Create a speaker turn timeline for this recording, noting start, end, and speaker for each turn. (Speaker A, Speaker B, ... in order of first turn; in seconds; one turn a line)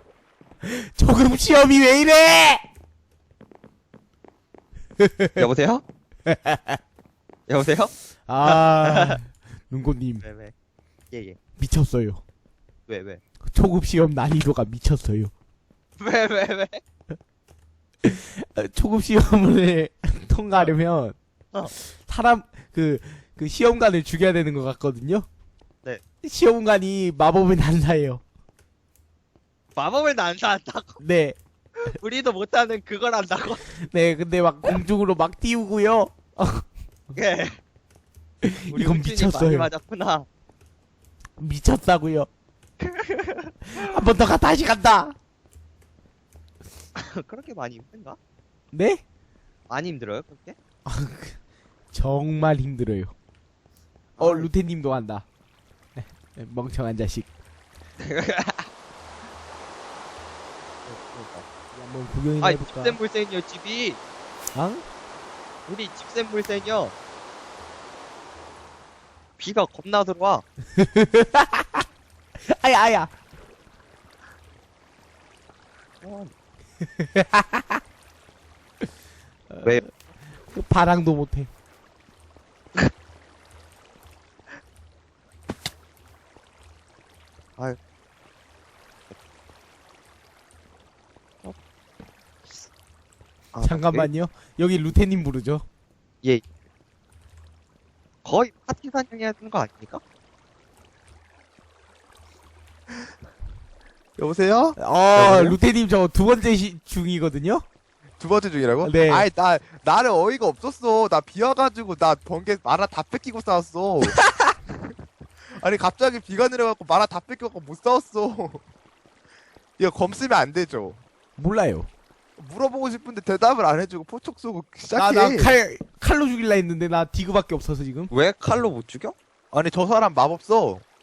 Speaker A: 0.6-2.6
Speaker A: 5.0-5.5
Speaker B: 5.4-5.8
Speaker A: 6.2-6.8
Speaker B: 7.5-9.2
Speaker A: 8.3-10.2
Speaker B: 10.2-10.5
Speaker B: 11.1-11.4
Speaker A: 11.6-12.2
Speaker B: 12.9-13.2
Speaker A: 13.4-15.3
Speaker B: 16.0-16.8
Speaker A: 18.0-21.1
Speaker A: 21.7-25.3
Speaker A: 26.2-28.2
Speaker B: 29.8-31.0
Speaker A: 31.0-31.4
Speaker B: 31.9-33.6
Speaker A: 33.8-36.6
Speaker B: 37.1-37.6
Speaker A: 38.4-39.7
Speaker B: 38.7-40.3
Speaker A: 41.4-42.3
Speaker B: 42.8-43.8
Speaker A: 43.7-45.2
Speaker B: 47.0-48.2
Speaker A: 48.7-49.0
Speaker B: 49.7-50.6
Speaker A: 50.9-51.4
Speaker A: 51.9-53.1
Speaker B: 54.2-54.5
Speaker A: 54.2-55.2
Speaker A: 56.0-57.3
Speaker B: 58.0-58.7
Speaker B: 60.9-61.5
Speaker A: 61.7-63.0
Speaker B: 62.4-64.0
Speaker A: 64.5-64.8
Speaker B: 65.7-66.9
Speaker B: 69.4-70.4
Speaker A: 70.7-71.8
Speaker A: 72.5-73.1
Speaker B: 76.0-76.3
Speaker A: 76.8-77.8
Speaker A: 79.5-79.9
Speaker A: 80.4-81.5
Speaker B: 93.5-94.1
Speaker A: 93.6-95.7
Speaker B: 98.2-100.0
Speaker C: 104.2-104.8
Speaker A: 104.8-107.6
Speaker B: 105.2-105.5
Speaker C: 108.2-114.2
Speaker A: 108.8-109.3
Speaker A: 114.0-114.5
Speaker C: 114.7-118.6
Speaker C: 119.8-121.0
Speaker A: 121.4-121.9
Speaker C: 122.4-125.5
Speaker A: 124.9-128.1
Speaker B: 128.1-129.2
Speaker C: 129.5-130.8